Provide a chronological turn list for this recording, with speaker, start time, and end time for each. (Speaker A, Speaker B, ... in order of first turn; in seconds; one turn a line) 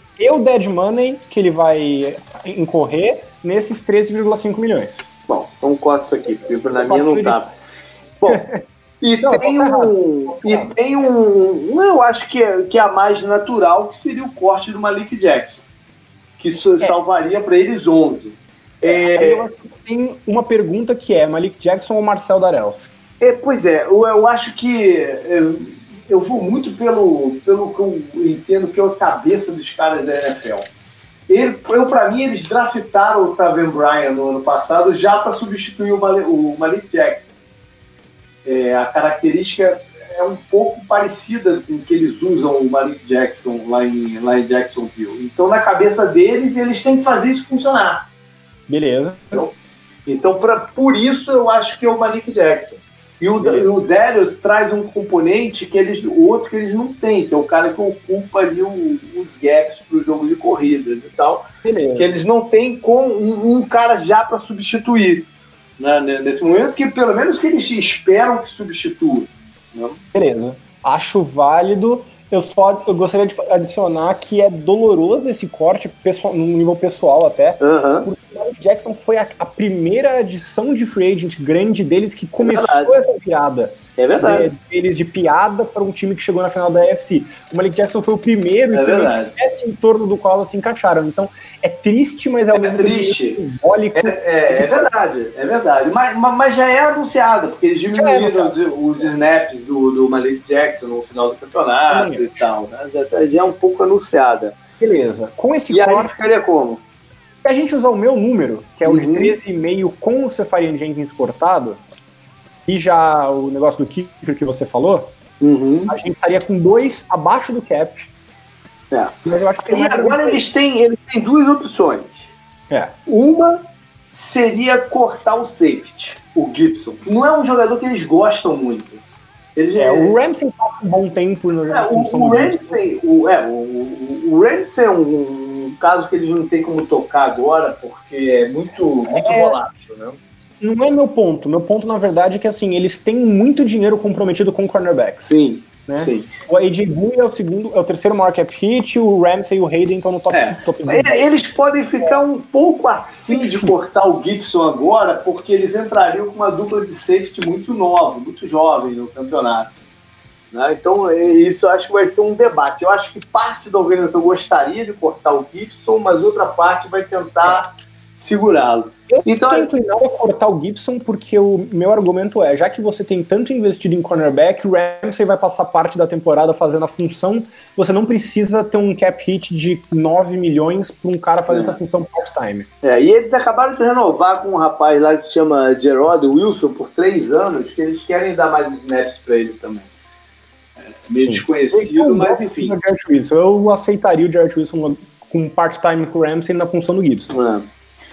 Speaker A: 0.2-5.1
Speaker B: 5.3-7.5
Speaker A: 6.8-7.4
Speaker A: 8.3-8.6
Speaker B: 9.0-15.6
Speaker A: 9.2-10.7
Speaker B: 16.4-19.4
Speaker A: 18.8-22.9
Speaker B: 23.2-30.6
Speaker B: 31.3-37.2
Speaker B: 38.4-48.0
Speaker A: 48.7-49.5
Speaker B: 50.0-61.4
Speaker A: 53.4-53.7
Speaker A: 61.6-62.1
Speaker B: 62.0-65.3
Speaker B: 65.8-70.0
Speaker A: 70.1-94.9
Speaker B: 77.6-78.1
Speaker B: 82.4-82.9
Speaker B: 84.0-84.5
Speaker B: 88.7-89.3
Speaker B: 92.5-93.4
Speaker B: 94.0-104.5
Speaker A: 97.9-98.6
Speaker A: 101.9-102.4
Speaker A: 104.8-106.1
Speaker B: 105.7-106.8
Speaker A: 107.4-111.8
Speaker B: 108.8-109.3
Speaker A: 112.7-115.1
Speaker B: 115.4-115.9
Speaker A: 115.9-118.1
Speaker B: 118.9-119.2
Speaker A: 119.2-120.4
Speaker B: 119.7-122.3
Speaker A: 122.7-123.0
Speaker B: 123.1-129.0
Speaker B: 129.6-130.1
Speaker A: 129.8-132.8
Speaker B: 131.7-140.2
Speaker A: 139.1-139.6
Speaker A: 140.6-145.3
Speaker B: 145.3-146.3
Speaker A: 145.8-151.3
Speaker B: 150.3-159.7
Speaker A: 153.3-153.7
Speaker B: 160.5-169.7
Speaker A: 169.1-182.7
Speaker B: 181.5-181.8
Speaker B: 182.8-189.9
Speaker B: 191.0-192.7
Speaker A: 191.3-197.3
Speaker B: 197.3-197.7